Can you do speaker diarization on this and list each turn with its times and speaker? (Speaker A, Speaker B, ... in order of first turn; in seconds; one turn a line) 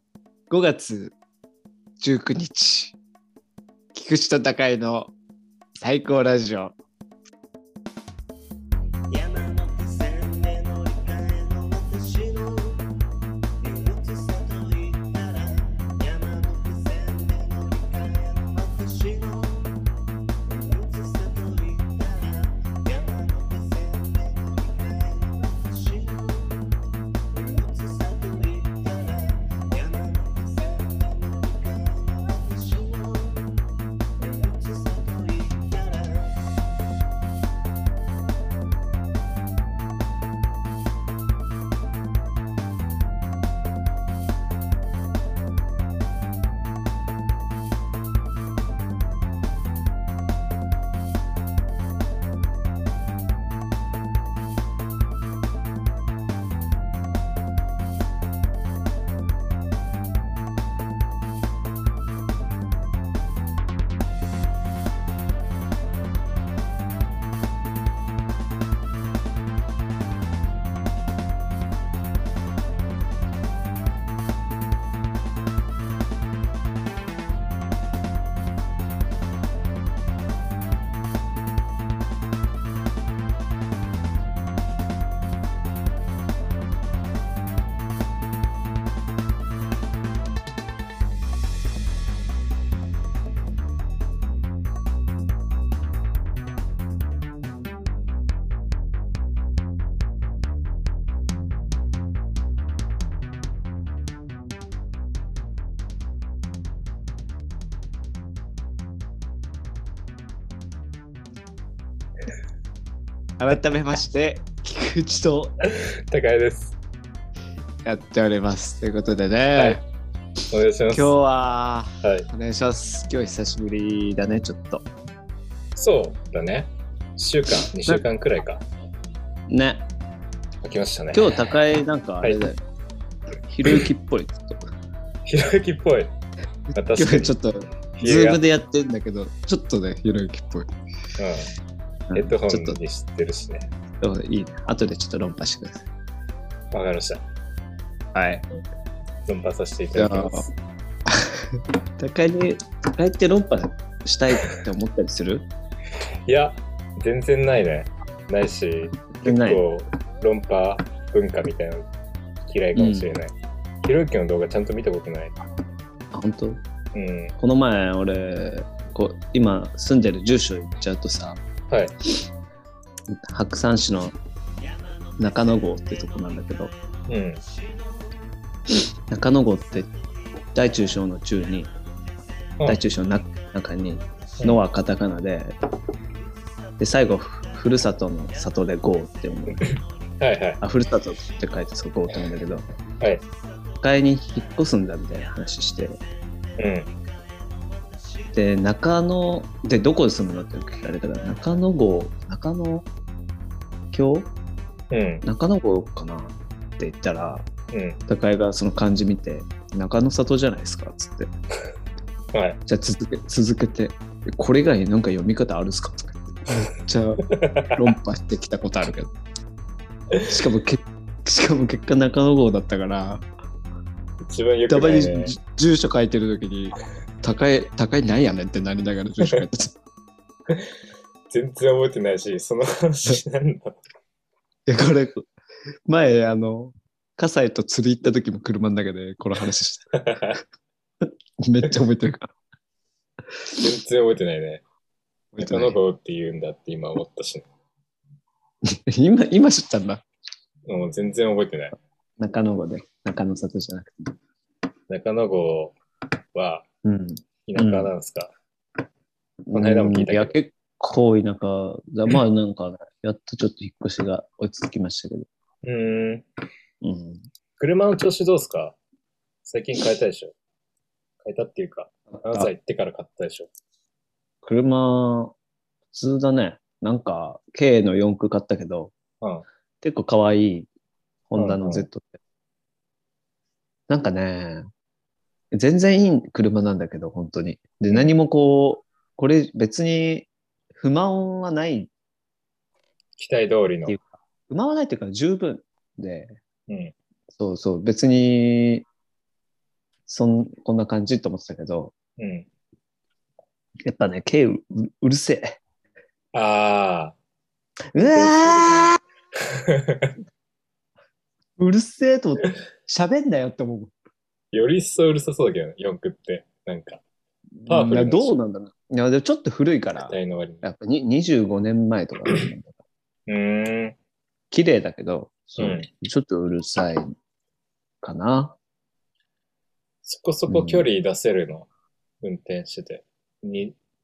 Speaker A: 0.5-1.1
Speaker A: 2.0-3.0
Speaker A: 3.9-5.1
Speaker A: 5.8-6.8
Speaker B: 9.1-12.9
Speaker B: 13.6-26.8
Speaker B: 27.3-33.6
Speaker B: 34.2-36.5
Speaker A: 113.4-115.6
Speaker C: 115.7-116.8
Speaker A: 117.8-119.8
Speaker C: 120.5-121.2
Speaker A: 120.9-124.8
Speaker C: 122.0-122.3
Speaker C: 125.8-128.6
Speaker A: 127.6-128.0
Speaker A: 129.5-129.8
Speaker C: 130.6-131.5
Speaker A: 131.1-132.6
Speaker A: 133.5-134.6
Speaker C: 135.3-136.1
Speaker C: 136.8-137.3
Speaker A: 136.9-140.7
Speaker C: 138.0-138.4
Speaker C: 141.2-141.5
Speaker A: 142.1-142.8
Speaker C: 142.2-143.7
Speaker A: 144.0-145.9
Speaker C: 146.7-147.2
Speaker A: 148.1-148.5
Speaker C: 149.3-150.5
Speaker A: 149.9-150.4
Speaker A: 151.1-155.5
Speaker C: 156.3-161.9
Speaker A: 159.2-159.6
Speaker C: 162.4-165.3
Speaker A: 162.8-163.1
Speaker A: 166.1-166.6
Speaker C: 166.9-167.3
Speaker A: 167.4-171.4
Speaker A: 173.1-174.2
Speaker B: 174.6-178.2
Speaker A: 175.2-176.7
Speaker C: 177.1-177.4
Speaker A: 179.1-179.9
Speaker B: 179.4-184.4
Speaker A: 180.6-181.7
Speaker A: 182.7-185.5
Speaker B: 186.2-190.1
Speaker A: 186.8-189.6
Speaker C: 189.7-190.6
Speaker A: 190.6-192.7
Speaker B: 191.2-191.7
Speaker B: 193.2-194.6
Speaker A: 193.8-196.0
Speaker B: 195.2-198.4
Speaker C: 196.6-196.9
Speaker A: 198.3-202.9
Speaker A: 203.9-204.3
Speaker C: 204.9-205.2
Speaker A: 205.2-207.5
Speaker C: 207.7-208.0
Speaker A: 208.1-211.3
Speaker C: 212.3-212.6
Speaker A: 212.7-219.1
Speaker C: 217.3-217.9
Speaker A: 220.3-223.2
Speaker C: 224.3-225.3
Speaker A: 224.7-229.8
Speaker C: 231.3-233.8
Speaker A: 234.7-235.3
Speaker A: 235.9-239.9
Speaker C: 240.0-240.4
Speaker A: 241.0-242.3
Speaker C: 243.5-244.6
Speaker A: 245.3-245.8
Speaker C: 245.4-247.4
Speaker A: 248.7-250.0
Speaker C: 250.7-251.8
Speaker A: 252.2-254.1
Speaker C: 254.9-255.8
Speaker C: 256.4-256.6
Speaker A: 256.8-257.9
Speaker C: 257.5-258.3
Speaker A: 259.5-265.3
Speaker C: 259.5-260.3
Speaker C: 265.6-266.3
Speaker A: 266.8-267.2
Speaker C: 267.6-268.8
Speaker C: 269.4-270.3
Speaker C: 271.2-273.5
Speaker A: 272.1-272.5
Speaker A: 274.4-275.4
Speaker A: 275.9-278.9
Speaker A: 279.8-280.7
Speaker A: 281.3-282.1
Speaker C: 281.4-281.9
Speaker A: 283.9-284.7
Speaker A: 285.5-291.9
Speaker C: 293.2-294.0
Speaker A: 293.9-296.3
Speaker A: 297.4-298.9
Speaker A: 300.1-301.9
Speaker C: 302.2-302.5
Speaker A: 303.9-305.6
Speaker C: 306.3-307.1
Speaker A: 307.9-309.0
Speaker C: 308.0-310.1
Speaker A: 311.6-313.9
Speaker C: 314.5-317.0
Speaker A: 317.6-322.7
Speaker C: 317.7-318.3
Speaker C: 320.0-320.6
Speaker C: 323.3-324.0
Speaker A: 324.5-327.1
Speaker C: 325.6-325.9
Speaker A: 328.0-328.6
Speaker C: 330.1-331.7
Speaker A: 330.5-330.9
Speaker C: 332.2-333.8